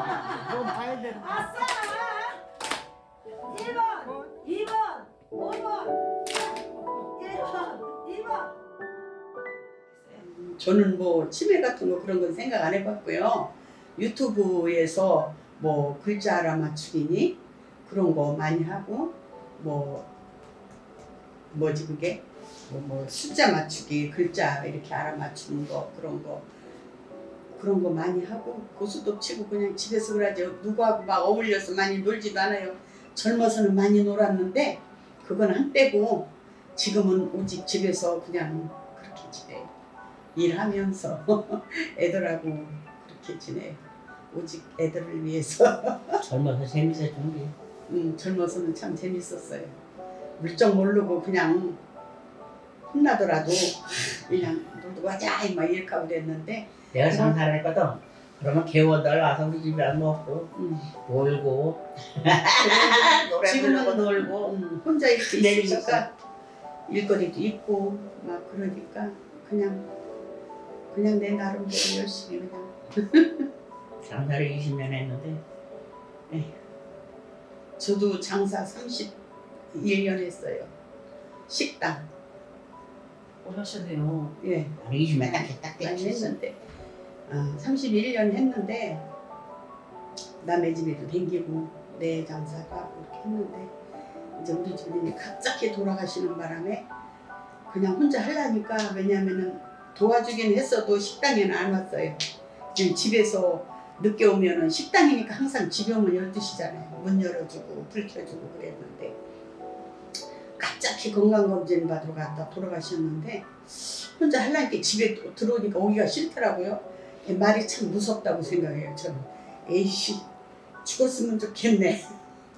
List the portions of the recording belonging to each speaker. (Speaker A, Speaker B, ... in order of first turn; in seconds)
Speaker A: 0.9-2.4, 3.4-6.0, 7.1-8.5
Speaker B: 10.1-20.1, 21.5-26.4, 27.5-39.7, 40.3-43.8, 44.3-46.2, 47.9-49.7, 50.4-51.8, 52.9-57.4, 60.5-60.9, 62.6-66.1, 66.9-69.8, 70.9-73.5, 77.8-79.1, 79.7-80.7, 81.5-82.0, 84.4-86.6, 87.3-89.0, 90.4-93.7, 94.3-96.9, 97.7-102.2, 102.7-109.2, 110.6-120.2, 120.8-122.0
Speaker C: 46.2-47.5, 56.9-60.5, 61.0-64.5, 65.2-66.0, 74.0-75.4, 83.4-86.3